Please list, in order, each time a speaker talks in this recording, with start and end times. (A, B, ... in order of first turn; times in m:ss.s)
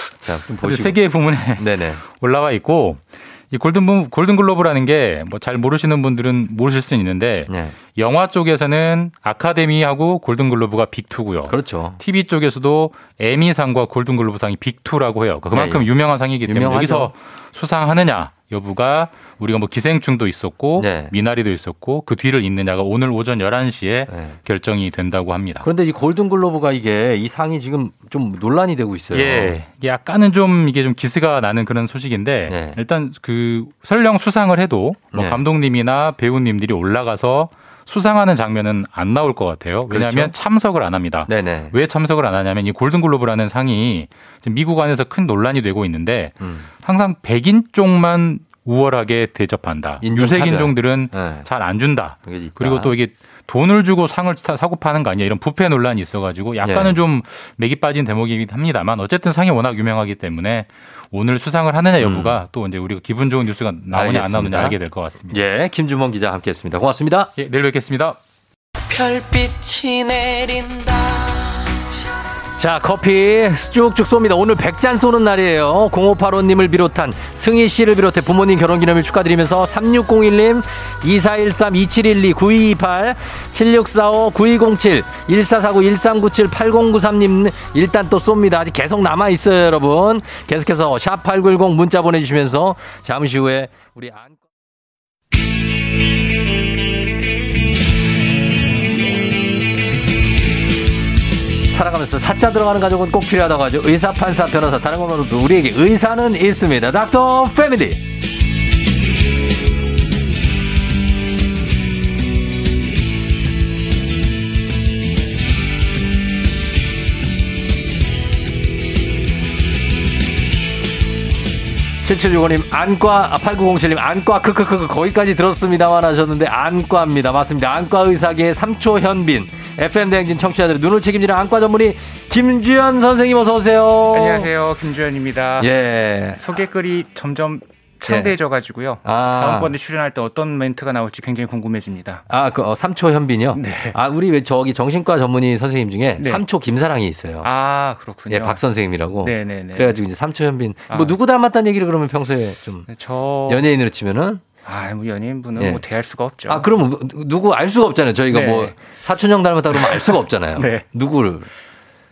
0:00.2-0:01.0 A
0:00.6-0:25.7 B
0:01.6-0:02.0 A
0:07.5-0:07.7 A
0:11.5-0:12.0 A
0:15.5-0:15.9 A
0:16.4-0:17.1 A
0:20.8-0:21.1 A
0:24.1-0:24.4 A
0:25.6-0:29.5 A
0:29.1-1:05.4 B
0:32.5-0:32.8 A
0:35.1-0:35.4 A
0:39.9-0:40.4 A
0:41.3-0:41.7 A
0:46.4-0:46.7 A
0:50.0-0:51.5 A
0:52.2-0:52.9 A
0:56.6-0:57.0 A
1:02.0-1:02.4 A
1:03.9-1:07.3 A
1:07.4-1:08.2 B
1:08.9-1:11.8 C
1:12.6-1:34.4 A
1:41.7-1:48.0 A
2:02.0-2:14.5 A
2:14.1-2:15.7 D
2:15.6-2:16.4 A
2:16.4-2:22.2 D
2:18.1-2:18.4 A
2:19.0-2:19.7 A
2:22.3-2:27.5 A
2:23.5-2:24.0 D
2:26.2-2:26.4 D
2:27.4-2:28.6 D
2:28.3-2:32.9 A
2:29.2-2:30.0 D
2:30.9-2:31.2 D
2:32.9-2:33.6 D
2:33.5-2:34.4 A
2:34.6-2:36.7 D
2:35.6-2:35.8 A
2:36.5-2:41.5 A
2:38.3-2:38.8 D
2:39.7-2:40.8 D